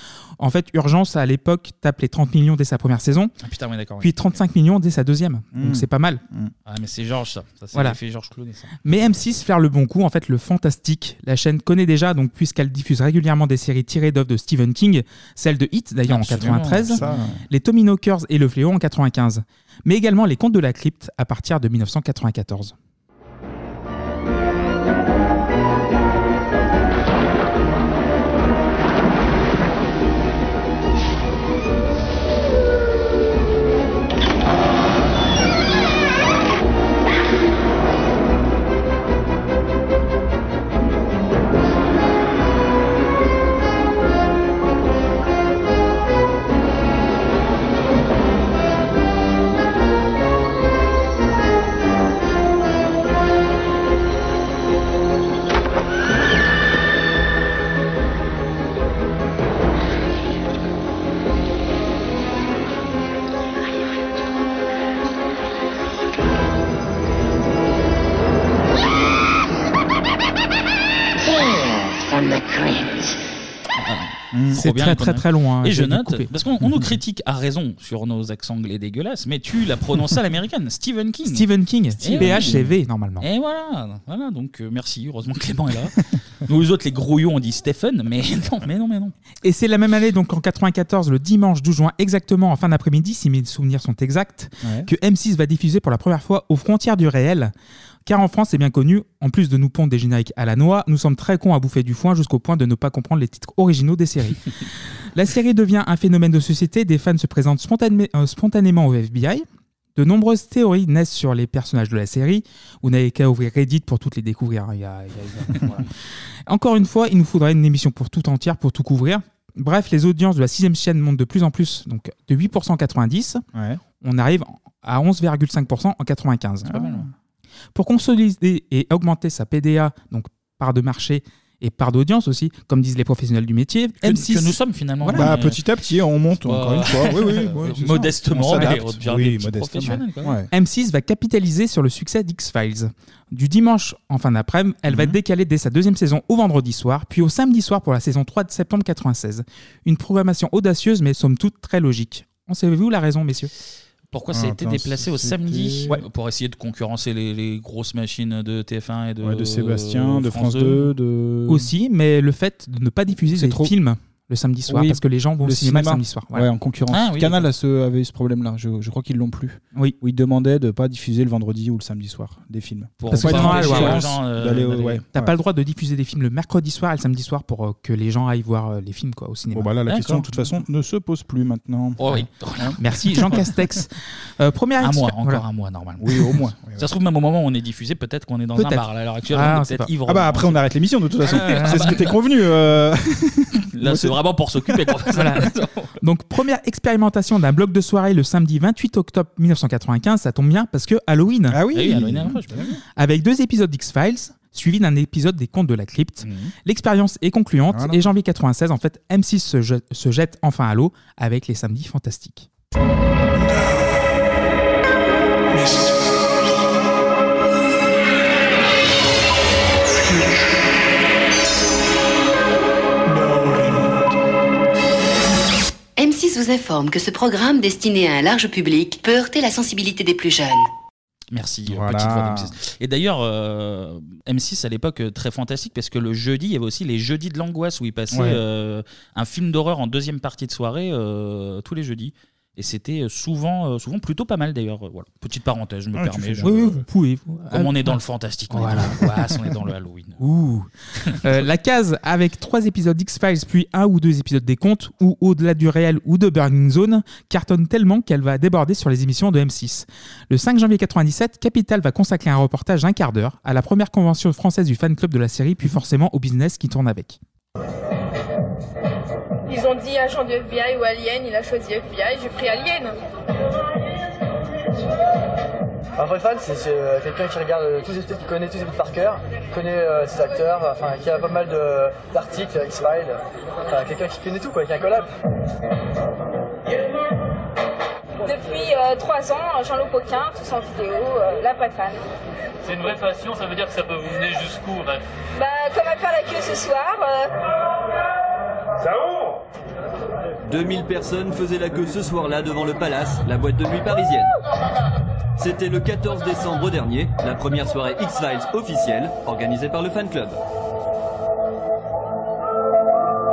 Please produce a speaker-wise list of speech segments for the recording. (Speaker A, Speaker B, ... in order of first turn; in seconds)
Speaker A: 0.4-3.3, 4.0-6.2, 8.8-22.7, 74.5-76.3, 81.3-83.2, 89.4-97.5, 98.0-104.5, 105.1-109.4, 110.0-115.9, 116.5-123.4, 124.0-127.0, 127.7-135.4, 138.5-138.8, 139.8-153.5, 161.5-166.5, 173.1-174.1, 175.1-180.2, 182.8-185.4, 188.6-189.9, 191.3-192.1, 195.1-195.5, 196.0-201.6, 202.9-212.5, 246.4-248.0, 248.5-249.1, 250.2-250.7, 251.2-267.2
Speaker B: 3.4-4.1, 6.7-8.8, 16.1-17.2, 73.8-81.5, 82.0-82.6, 83.2-89.1, 134.0-135.6, 136.4-140.3, 154.1-160.9, 166.9-167.5, 173.0-175.0, 182.0-183.4, 184.8-190.7, 191.2-192.1, 193.8-195.9, 201.7-202.6, 206.2-206.5, 231.3-246.7, 247.5-250.2
Speaker C: 5.5-6.5, 16.6-17.4, 74.3-74.6, 82.1-82.7, 94.6-94.9, 123.5-123.8, 126.6-127.1, 135.1-140.5, 144.9-145.2, 154.3-156.0, 159.2-161.7, 163.2-163.7, 164.7-175.3, 179.5-182.0, 186.0-186.9, 190.1-194.2, 201.5-202.8, 207.7-208.1, 231.7-232.5, 238.1-238.4, 245.9-246.8
Speaker D: 226.0-230.7
Speaker E: 269.5-272.9, 288.2-292.0, 295.3-297.3
Speaker F: 276.0-285.1
Speaker G: 292.6-295.0
Speaker H: 300.4-304.3, 305.4-310.4